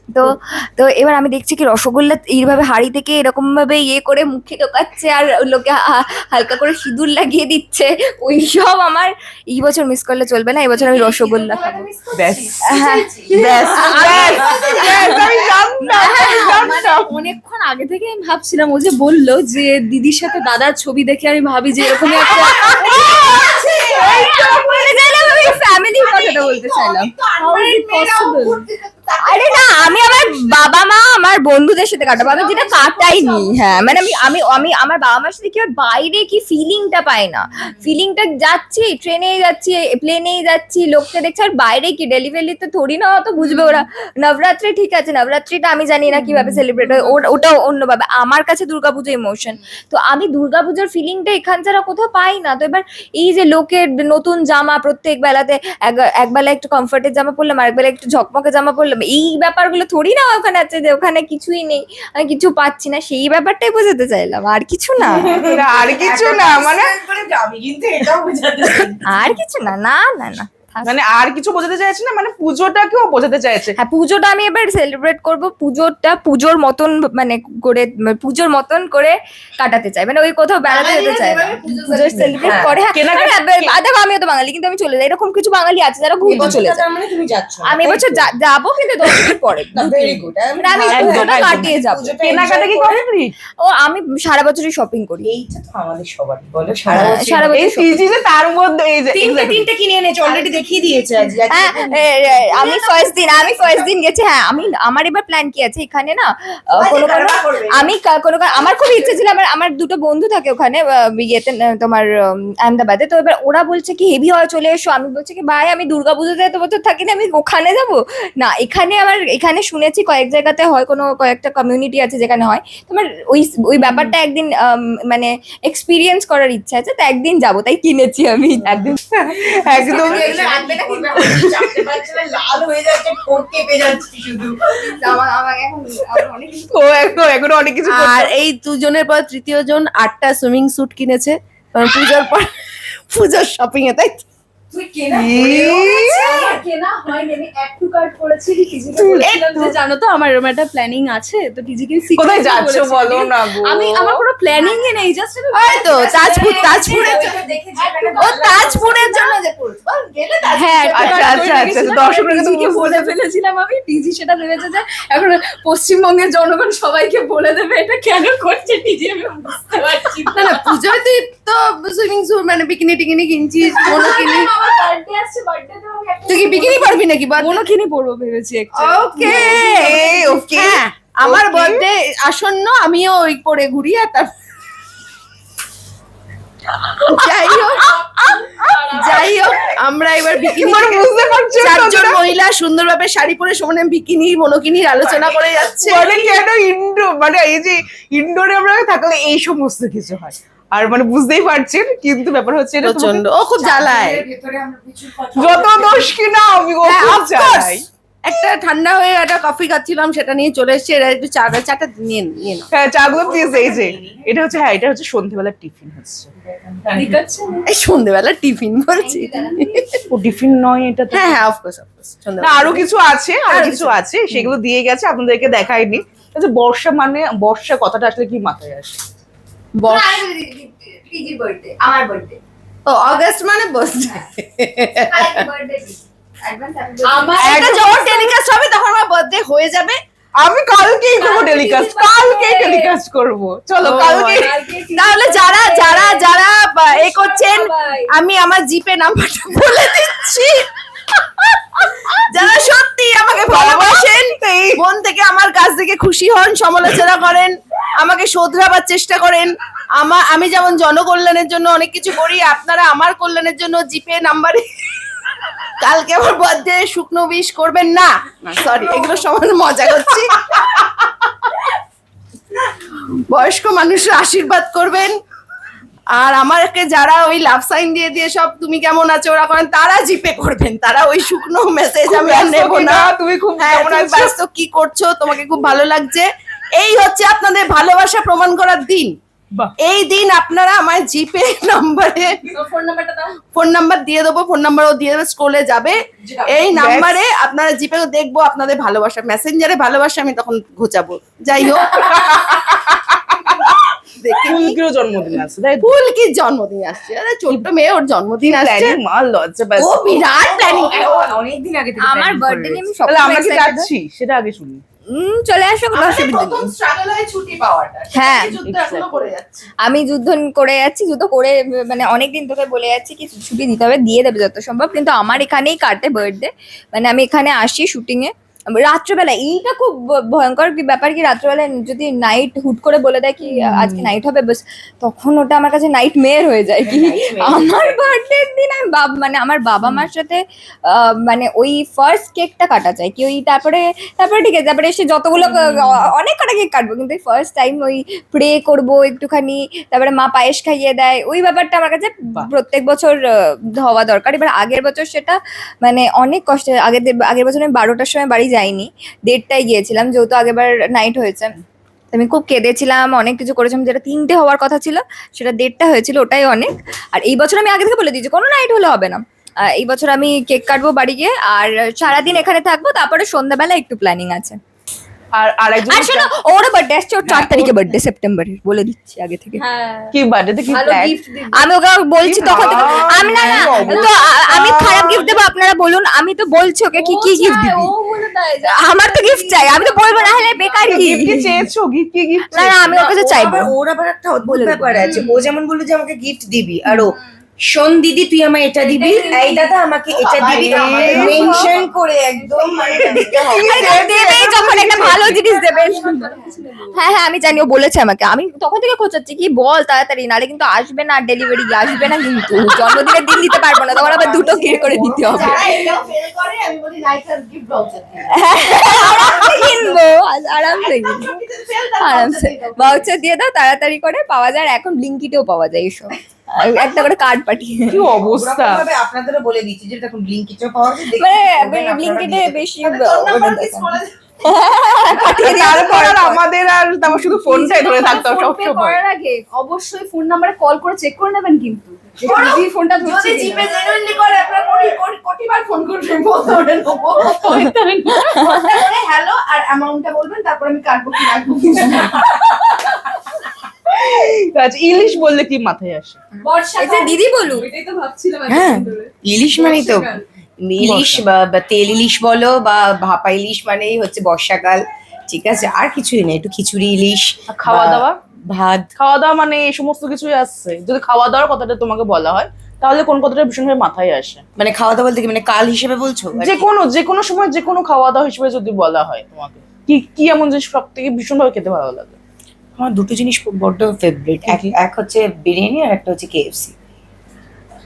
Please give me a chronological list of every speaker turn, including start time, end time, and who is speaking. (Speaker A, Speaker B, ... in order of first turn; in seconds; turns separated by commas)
Speaker A: 0.1-11.9, Speaker B: 10.7-15.5, Speaker C: 12.2-12.6, Speaker A: 12.6-15.2, Speaker C: 13.3-17.2, Speaker D: 15.8-22.9, Speaker A: 16.0-16.6, Speaker A: 22.0-27.1, Speaker B: 22.5-30.8, Speaker D: 27.4-28.6, Speaker A: 29.2-65.4, Speaker B: 31.9-34.6, Speaker C: 46.2-46.6, Speaker E: 65.0-69.4, Speaker C: 65.2-66.9, Speaker A: 69.1-70.9, Speaker C: 70.8-73.8, Speaker A: 73.8-86.8, Speaker B: 80.6-82.8, Speaker E: 82.4-82.8, Speaker C: 82.9-83.8, Speaker E: 86.2-88.2, Speaker A: 87.6-92.4, Speaker E: 89.7-93.0, Speaker C: 90.9-93.3, Speaker A: 93.6-95.3, Speaker E: 95.2-97.6, Speaker C: 96.9-99.7, Speaker A: 96.9-98.0, Speaker E: 99.1-103.1, Speaker B: 100.2-103.9, Speaker A: 101.5-112.1, Speaker E: 106.8-107.9, Speaker B: 108.5-109.2, Speaker A: 112.6-129.0, Speaker C: 128.7-130.5, Speaker A: 129.6-131.6, Speaker E: 129.7-134.8, Speaker C: 131.2-131.7, Speaker A: 134.8-137.3, Speaker C: 136.7-138.3, Speaker B: 137.9-142.5, Speaker B: 143.1-144.2, Speaker D: 144.7-159.2, Speaker C: 145.1-146.5, Speaker C: 148.9-149.7, Speaker C: 152.2-154.2, Speaker B: 155.5-157.6, Speaker E: 156.9-158.8, Speaker B: 158.2-161.7, Speaker D: 160.5-170.7, Speaker C: 160.9-163.1, Speaker B: 170.3-174.5, Speaker D: 173.7-180.0, Speaker B: 176.3-177.6, Speaker B: 178.7-184.3, Speaker C: 179.4-181.8, Speaker B: 187.0-187.9, Speaker D: 187.6-189.4, Speaker C: 188.6-189.4, Speaker B: 188.9-196.3, Speaker C: 190.4-192.3, Speaker E: 195.0-196.2, Speaker C: 195.8-203.2, Speaker B: 202.8-204.2, Speaker E: 203.5-206.2, Speaker C: 205.3-207.8, Speaker B: 206.8-212.7, Speaker C: 212.7-216.3, Speaker E: 213.0-214.4, Speaker E: 216.4-217.2, Speaker D: 216.9-217.7, Speaker B: 217.7-219.9, Speaker A: 219.0-220.0, Speaker C: 220.1-221.4, Speaker B: 221.1-222.9, Speaker C: 222.4-229.0, Speaker B: 223.5-224.5, Speaker A: 229.8-232.4, Speaker B: 229.8-230.2, Speaker B: 232.8-235.4, Speaker A: 235.1-238.3, Speaker D: 237.0-238.1, Speaker B: 237.4-240.0, Speaker C: 237.4-237.8, Speaker C: 240.4-244.5, Speaker D: 241.2-242.9, Speaker B: 243.8-250.7, Speaker D: 244.3-246.2, Speaker A: 245.6-246.3, Speaker D: 247.0-248.1, Speaker A: 247.0-248.1, Speaker B: 251.2-265.0, Speaker C: 252.3-254.8, Speaker B: 265.8-270.9, Speaker B: 273.3-275.2, Speaker B: 276.1-289.1, Speaker C: 282.0-284.3, Speaker B: 289.8-292.4, Speaker D: 292.4-293.4, Speaker B: 293.5-302.6, Speaker C: 296.6-297.2, Speaker C: 301.9-303.7, Speaker B: 304.1-304.8, Speaker C: 304.4-305.9, Speaker B: 305.8-309.0, Speaker C: 308.4-310.2, Speaker E: 309.8-312.8, Speaker B: 310.0-311.4, Speaker A: 312.0-313.9, Speaker C: 313.0-314.8, Speaker A: 315.1-316.7, Speaker B: 315.9-319.7, Speaker A: 318.1-318.5, Speaker C: 318.6-319.2, Speaker A: 319.8-353.2, Speaker C: 333.5-334.1, Speaker E: 336.8-338.0, Speaker C: 345.4-346.1, Speaker A: 353.8-361.6, Speaker A: 362.1-374.6, Speaker C: 375.3-376.5, Speaker A: 375.9-379.6, Speaker C: 377.2-378.0, Speaker D: 379.6-380.2, Speaker C: 380.1-381.2, Speaker D: 380.7-381.7, Speaker A: 381.5-387.9, Speaker C: 382.2-385.4, Speaker D: 382.5-384.1, Speaker D: 386.9-391.2, Speaker A: 388.6-391.6, Speaker C: 390.8-393.0, Speaker A: 392.5-393.7, Speaker E: 392.8-397.1, Speaker A: 394.4-395.1, Speaker D: 395.0-395.3, Speaker E: 397.7-404.2, Speaker D: 398.9-399.7, Speaker B: 400.1-401.8, Speaker C: 400.6-401.6, Speaker A: 401.2-401.6, Speaker D: 401.4-401.7, Speaker C: 402.9-405.4, Speaker A: 403.5-406.4, Speaker D: 405.1-407.0, Speaker A: 406.9-415.8, Speaker B: 413.8-423.2, Speaker A: 418.3-421.3, Speaker A: 422.0-428.1, Speaker C: 427.9-428.8, Speaker E: 428.2-432.6, Speaker A: 431.1-436.4, Speaker B: 432.8-434.1, Speaker C: 435.1-439.0, Speaker D: 437.4-443.7, Speaker B: 442.2-447.7, Speaker D: 447.2-448.6, Speaker A: 448.3-448.7, Speaker B: 448.3-452.6, Speaker C: 453.9-456.2, Speaker D: 456.4-460.2, Speaker A: 456.8-457.7, Speaker E: 458.5-460.1, Speaker E: 460.6-468.9, Speaker C: 460.8-461.2, Speaker C: 467.5-468.2, Speaker C: 469.0-474.4, Speaker E: 474.6-476.7, Speaker C: 476.4-482.2, Speaker E: 482.8-486.7